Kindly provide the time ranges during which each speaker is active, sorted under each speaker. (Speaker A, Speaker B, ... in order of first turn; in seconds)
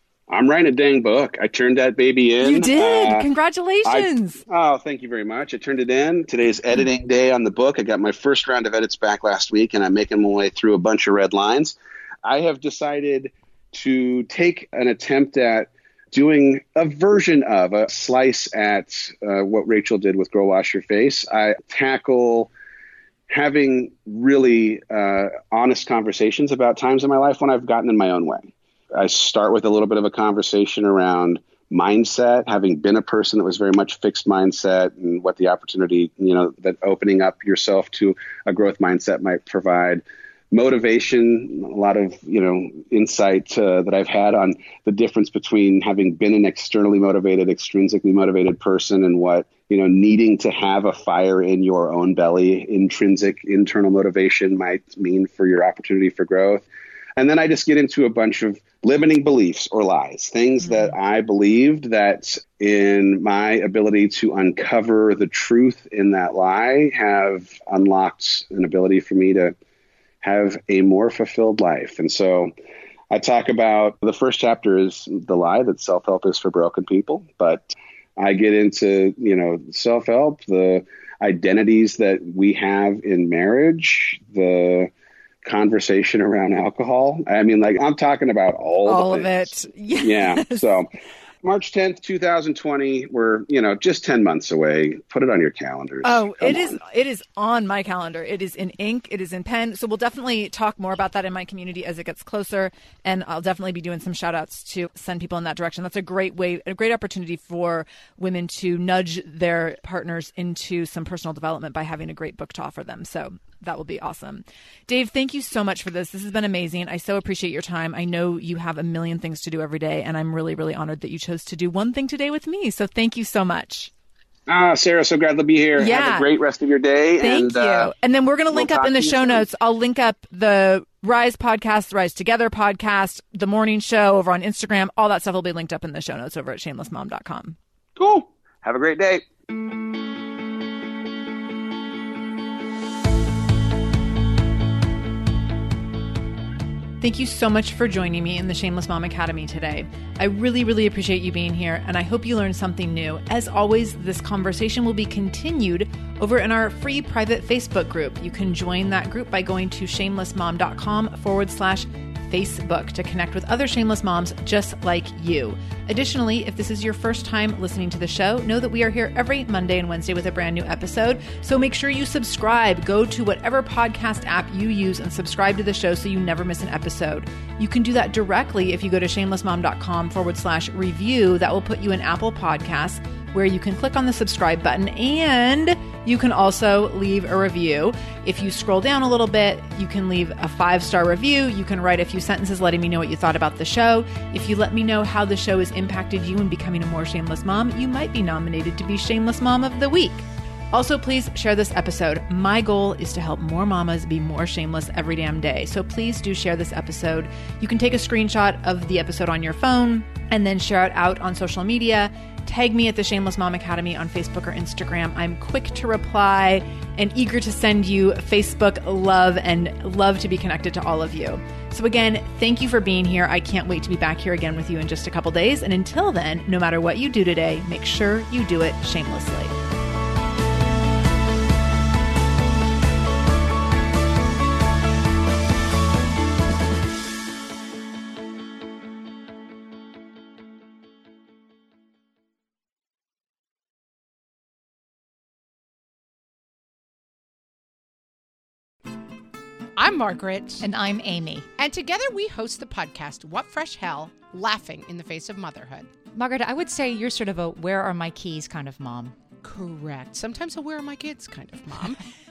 Speaker A: 0.3-3.3, 3.9-22.5, 23.3-56.6, 57.2-69.5, 70.2-72.5, 73.1-84.9, 85.4-90.9, 91.4-96.8, 124.5-127.9, 128.5-129.4, 138.0-139.2
Speaker B: 2.4-4.4, 60.6-60.9, 88.9-90.7, 96.0-123.9, 125.8-126.3, 127.2-137.6, 147.0-229.5
Speaker C: 249.8-250.7, 251.6-255.9, 259.4-262.0
Speaker D: 250.6-251.5, 256.1-259.2